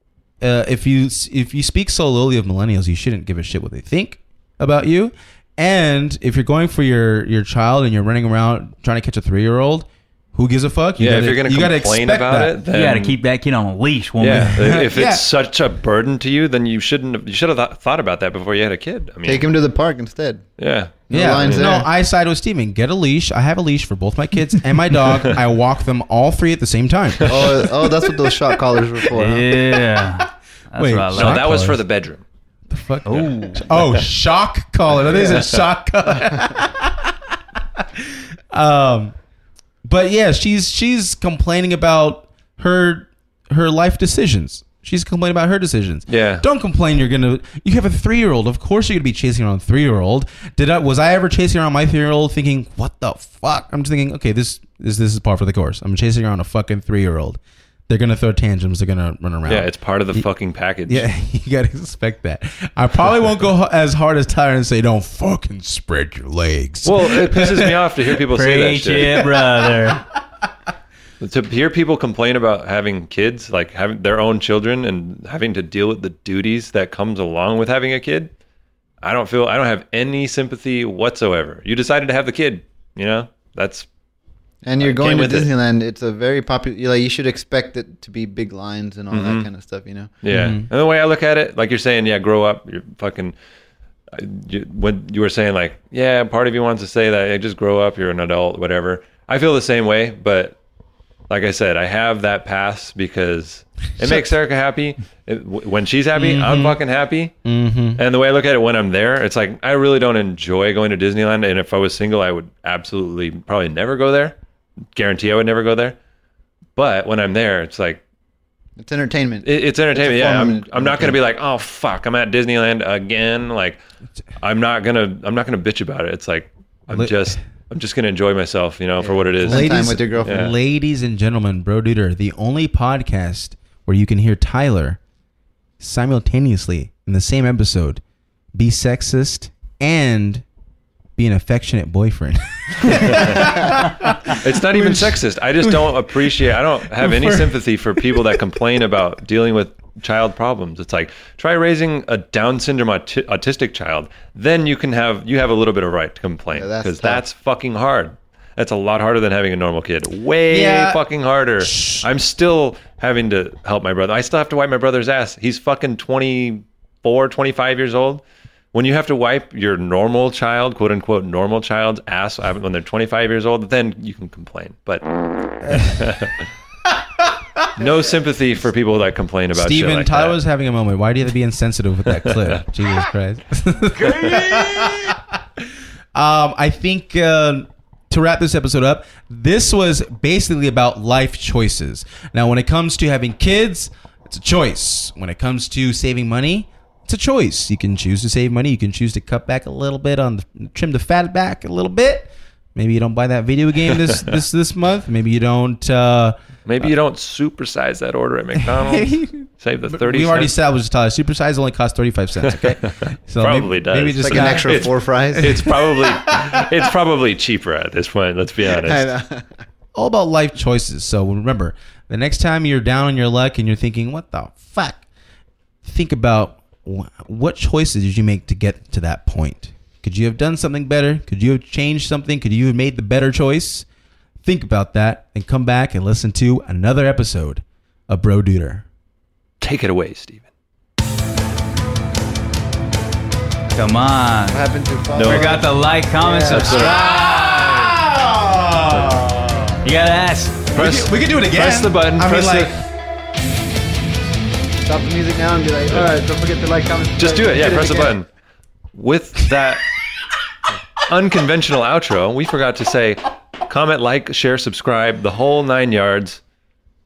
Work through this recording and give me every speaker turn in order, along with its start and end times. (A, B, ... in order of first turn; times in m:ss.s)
0:00.4-0:12.6 A
0:11.0-0:13.2 B
0:12.7-0:14.8 C
0:14.2-0:19.5 B
0:14.3-0:15.2 A
0:19.2-0:20.4 D
0:20.6-0:21.7 B
0:21.1-0:21.9 D
0:21.1-0:27.9 A
0:27.3-0:29.5 D
0:29.1-0:31.6 C
0:30.8-0:31.8 A
0:31.1-0:32.2 B
0:32.7-0:37.2 A
0:33.0-0:33.7 C
0:37.8-0:39.1 A
0:39.8-1:00.3 A
0:46.1-0:46.4 B
0:59.4-1:01.0 B
1:00.9-1:07.9 A
1:06.8-1:09.3 B
1:08.2-1:10.0 C
1:11.2-1:18.3 B
1:19.0-1:23.9 B
1:24.6-1:30.1 D
1:24.8-1:25.5 B
1:29.1-1:29.5 B
1:30.2-1:33.3 B
1:30.3-1:30.7 A
1:34.1-1:40.6 B
1:41.3-1:47.3 B
1:44.0-1:44.3 A
1:46.2-1:46.8 A
1:47.4-1:48.0 A
1:48.0-1:54.4 B
1:54.9-1:56.0 B
1:56.8-1:58.0 B
1:58.8-2:01.2 D
1:59.4-2:03.8 B
2:04.4-2:10.5 B
2:06.9-2:07.4 A
2:09.0-2:10.5 D
2:09.4-2:15.0 A
2:15.8-2:18.0 A
2:18.5-2:20.4 A
2:21.2-2:28.4 A
2:22.9-2:23.6 B
2:24.3-2:56.4 B
2:36.5-2:37.2 D
2:40.5-2:41.0 A
2:41.6-2:42.1 A
2:57.8-3:00.4 B
2:59.5-3:05.4 A
3:02.2-3:02.6 B
3:04.0-3:05.0 B
3:06.1-3:26.9 A
3:26.7-3:30.5 B
3:28.6-3:36.7 A
3:32.4-3:39.1 B
3:34.2-3:35.7 D
3:38.7-3:39.5 D
3:40.0-3:45.0 A
3:45.8-3:53.9 A
3:54.4-3:58.8 A
3:59.6-4:00.5 B
4:03.7-4:04.6 C
4:04.5-4:06.9 D
4:05.1-4:07.0 C
4:05.2-4:05.6 B
4:06.5-4:08.0 B
4:06.5-4:09.8 A
4:09.8-4:10.7 C
4:10.7-4:12.7 A
4:10.7-4:12.7 B
4:14.8-4:18.2 D
4:17.2-4:18.3 B
4:18.9-4:19.9 B
4:21.0-4:26.4 B